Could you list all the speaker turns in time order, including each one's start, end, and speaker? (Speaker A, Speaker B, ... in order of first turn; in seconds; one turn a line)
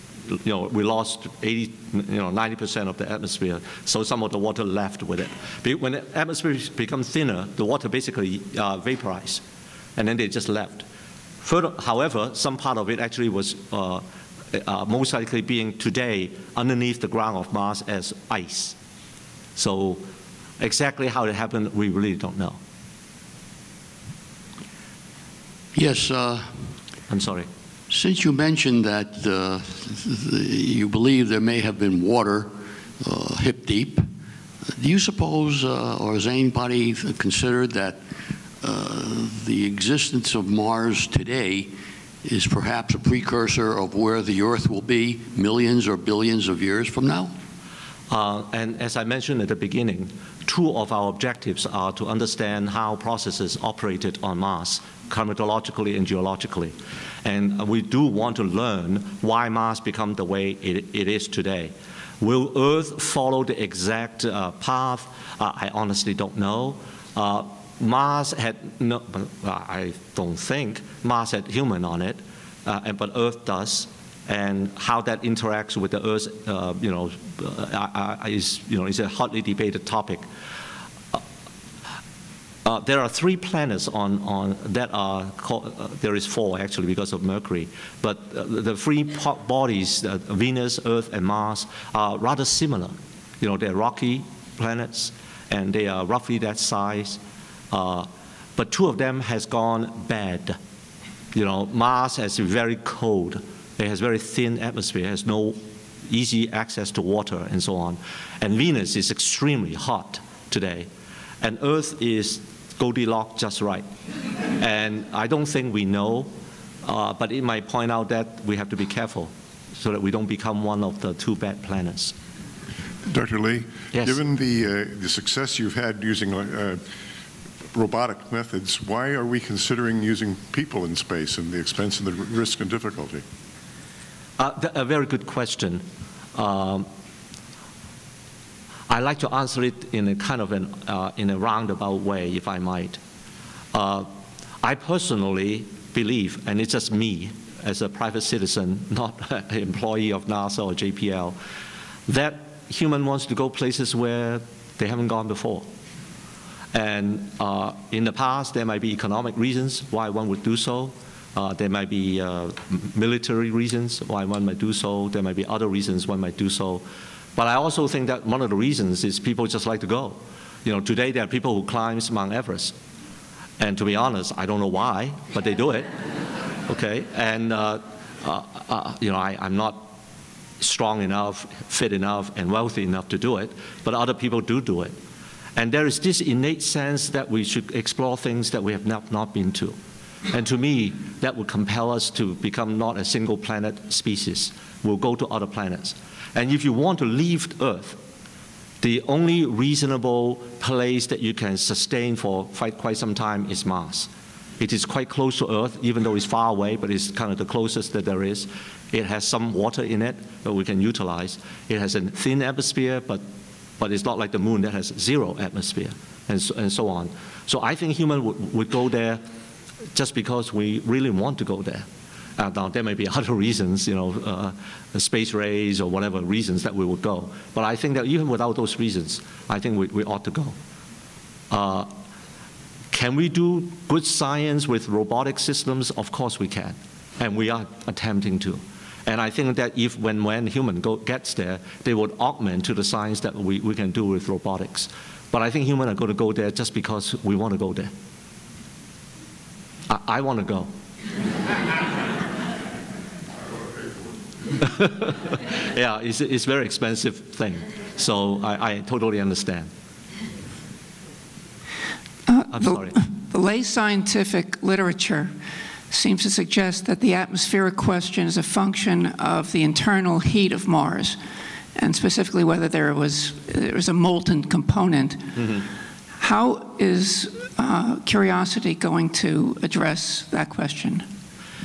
Speaker A: 0.3-9.4
Speaker A: 10.0-10.9
Speaker A: 11.4-18.7
Speaker A: 19.6-20.1
Speaker A: 20.6-22.6
Speaker B: 25.7-26.7
Speaker A: 27.1-27.5
Speaker B: 27.9-34.1
Speaker B: 34.8-38.0
Speaker B: 38.6-41.7
Speaker B: 42.2-47.3
Speaker A: 48.1-80.2
Speaker A: 82.6-97.2
Speaker A: 97.7-100.6
Speaker A: 101.3-110.9
Speaker A: 111.4-113.9
Speaker A: 114.6-116.3
Speaker A: 116.8-122.1
Speaker C: 123.1-126.8
Speaker A: 123.9-124.2
Speaker C: 127.7-133.2
Speaker A: 134.4-135.8
Speaker A: 136.3-136.9
Speaker A: 138.9-143.0
Speaker A: 143.7-144.1
Speaker A: 144.6-151.4
Speaker A: 152.1-155.7
Speaker A: 156.7-166.8
Speaker A: 167.4-172.7
Speaker A: 173.6-176.1
Speaker A: 176.6-179.9
Speaker A: 180.6-184.9
Speaker A: 185.6-189.8
Speaker A: 190.3-198.0
Speaker A: 198.8-204.1
Speaker A: 204.6-213.2
Speaker A: 213.8-219.2
Speaker A: 219.9-230.6
Speaker A: 231.5-231.9
Speaker A: 232.9-247.9
Speaker A: 249.9-250.7
Speaker A: 254.6-259.7
Speaker D: 262.3-265.3
Speaker A: 262.5-263.0
Speaker D: 265.9-271.2
Speaker D: 271.7-275.5
Speaker A: 275.4-275.6
Speaker D: 276.2-281.1